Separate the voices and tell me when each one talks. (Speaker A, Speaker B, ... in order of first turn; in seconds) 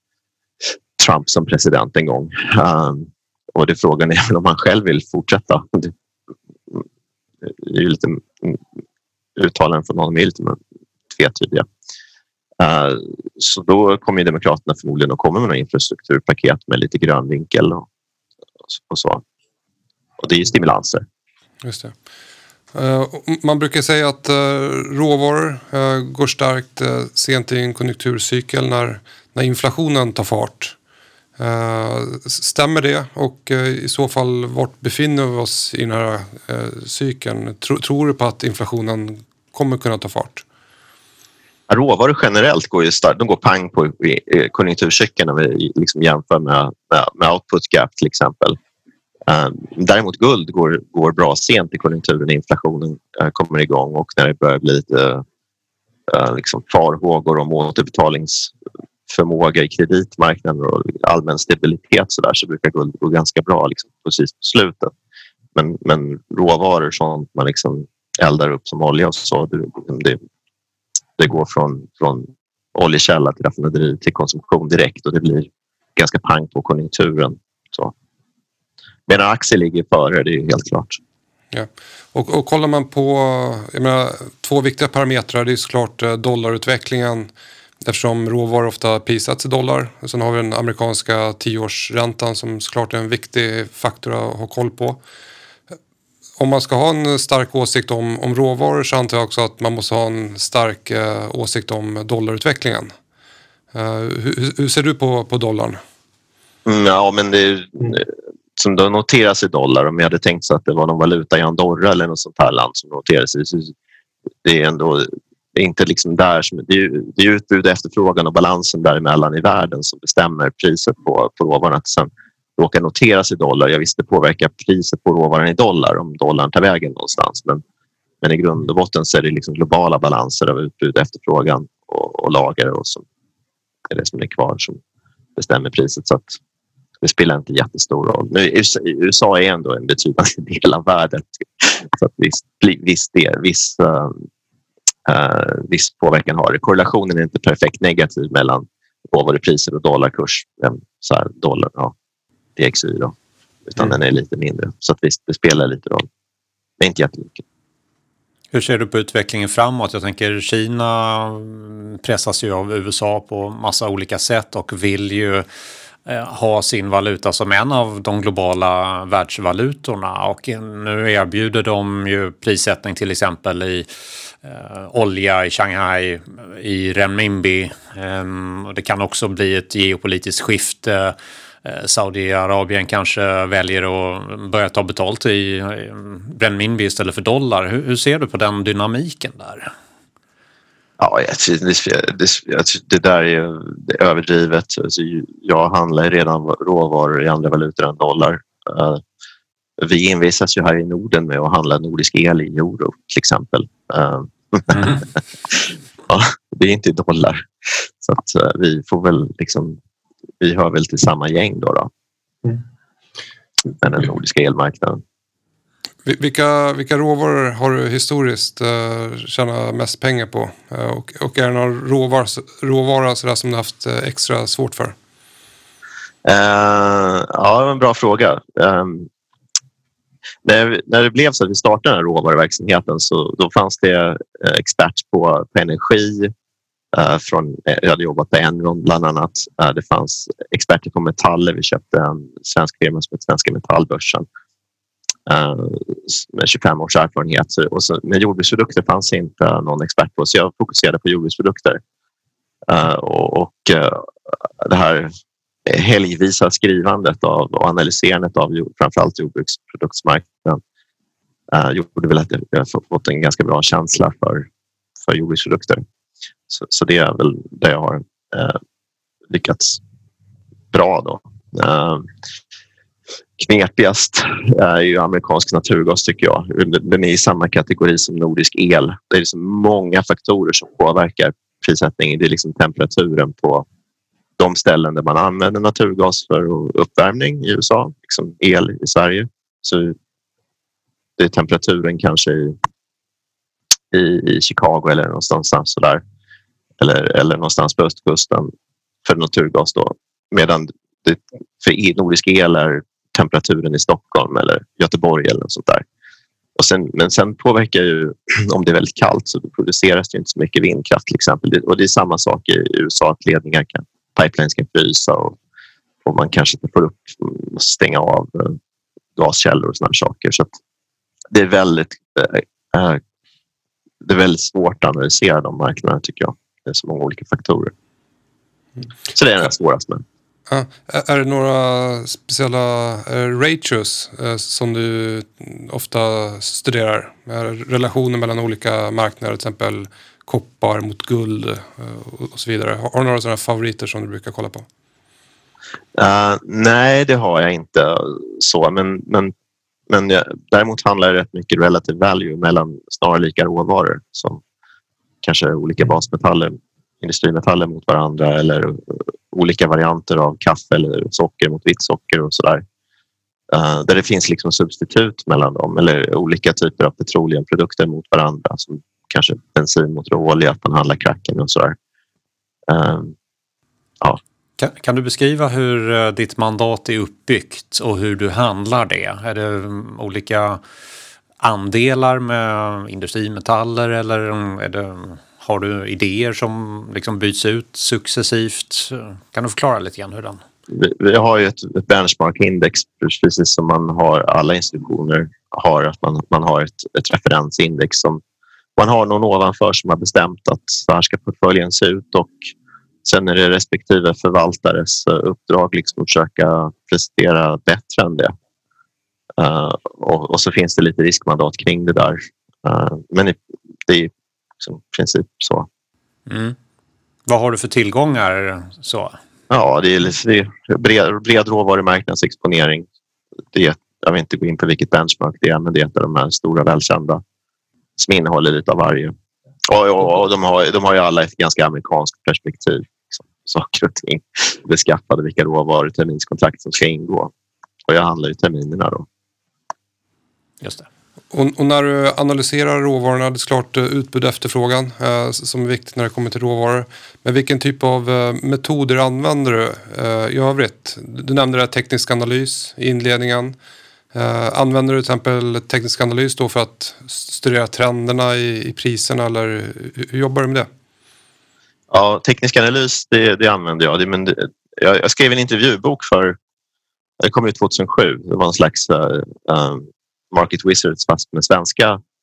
Speaker A: 1.0-5.9, 7.4-8.6, 9.3-10.6, 11.1-11.7, 12.6-17.8, 18.7-19.2, 20.2-21.0, 41.7-48.6, 49.3-55.2, 56.1-58.5, 59.1-64.9, 65.5-70.2, 71.2-77.9, 79.1-81.0, 106.7-113.7, 114.4-127.6, 128.2-133.0, 133.9-134.8, 135.3-136.4, 137.0-144.2, 145.1-151.9, 152.6-153.1, 153.7-156.1, 156.8-157.4, 191.0-199.0, 199.8-209.8, 210.4-211.9, 213.8-215.0, 226.2-229.1, 230.4-236.3, 236.9-244.2, 245.3-251.8, 252.7-254.1, 254.6-255.1, 255.7-260.6, 261.5-264.5, 265.0-265.8, 266.5-268.6, 269.3-269.8, 270.7-272.1, 273.4-283.6, 284.4-289.9, 291.2-292.6, 293.9-296.0, 296.8-298.5, 299.0-305.8, 306.6-315.4, 316.0-318.6, 319.1-320.5, 321.3-323.0, 324.0-327.7, 329.1-330.0, 345.9-349.3, 349.9-354.4, 355.2-362.6, 363.5-371.8, 372.7-373.1, 390.7-398.2, 398.8-402.5, 403.0-408.3, 409.4-415.7, 419.5-422.9, 423.5-427.2, 428.0-429.1, 429.7-437.3, 437.9-439.1, 461.9-466.4, 467.2-472.0
Speaker B: 21.6-21.9, 22.7-30.8, 31.4-40.4, 81.5-87.3, 87.8-95.0, 96.4-102.9, 103.7-105.8, 216.0-224.9, 330.5-344.7, 441.3-453.5, 454.1-460.7
Speaker C: 158.5-165.4, 166.1-173.9, 174.4-189.7, 374.6-380.6, 381.4-390.4, 416.3-416.6, 417.3-419.1